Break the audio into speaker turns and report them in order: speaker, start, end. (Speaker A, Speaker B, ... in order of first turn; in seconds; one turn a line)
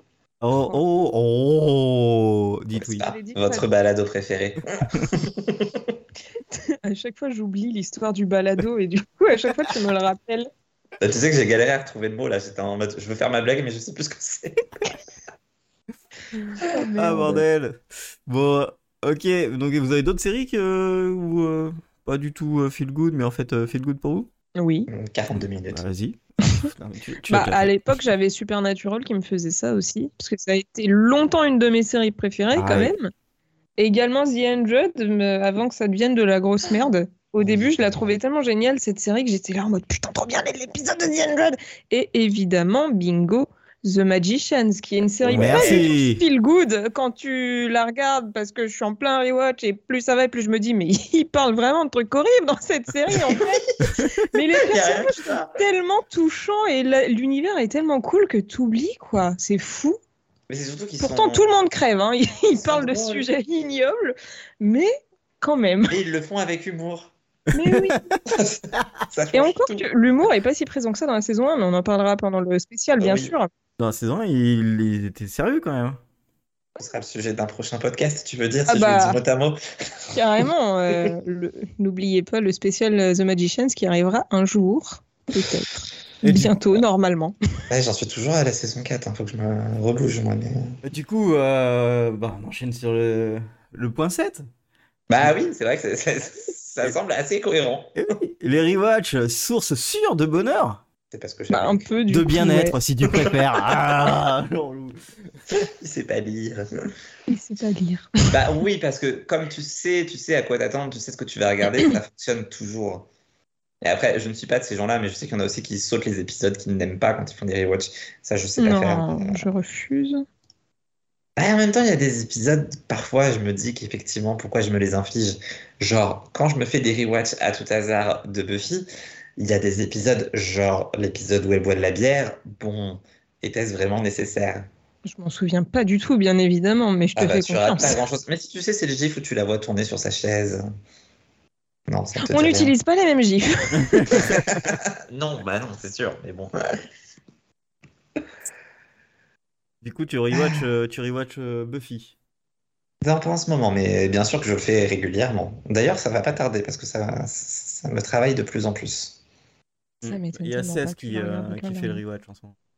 Speaker A: 0.4-3.0
Speaker B: 2.7-5.9
Speaker C: 3.0-3.7
Speaker C: 6.7-10.5
Speaker B: 11.0-14.8
Speaker A: 16.3-24.3
Speaker C: 16.7-17.4
Speaker C: 24.6-24.9
Speaker B: 24.9-25.8
Speaker A: 25.3-28.0
Speaker C: 27.3-33.1
Speaker A: 32.5-32.9
Speaker C: 33.8-60.0
Speaker B: 37.4-38.1
Speaker B: 45.2-45.9
Speaker A: 45.2-46.2
Speaker B: 54.5-55.6
Speaker B: 60.5-61.4
Speaker C: 61.0-66.0
Speaker B: 62.5-63.3
Speaker B: 65.9-67.1
Speaker C: 67.5-68.0
Speaker A: 67.6-68.2
Speaker B: 68.3-69.8
Speaker C: 69.3-73.5
Speaker B: 73.0-73.3
Speaker A: 73.8-76.0
Speaker B: 76.8-80.1
Speaker C: 78.7-79.2
Speaker C: 80.1-87.3
Speaker A: 86.2-86.6
Speaker B: 87.7-90.7
Speaker A: 90.8-94.5
Speaker B: 95.1-97.9
Speaker A: 98.0-100.8
Speaker B: 101.1-101.9
Speaker C: 101.5-102.7
Speaker A: 102.1-105.0
Speaker B: 105.5-106.7
Speaker C: 107.3-108.5
Speaker B: 108.3-113.1
Speaker B: 113.8-119.4
Speaker C: 118.6-120.2
Speaker B: 121.4-134.7
Speaker C: 135.0-138.0
Speaker B: 137.2-140.7
Speaker B: 141.9-142.7
Speaker C: 142.2-144.6
Speaker A: 143.7-144.3
Speaker B: 144.3-146.5
Speaker A: 149.8-152.2
Speaker B: 150.3-150.6
Speaker B: 153.0-159.2
Speaker A: 160.0-162.6
Speaker C: 160.0-162.0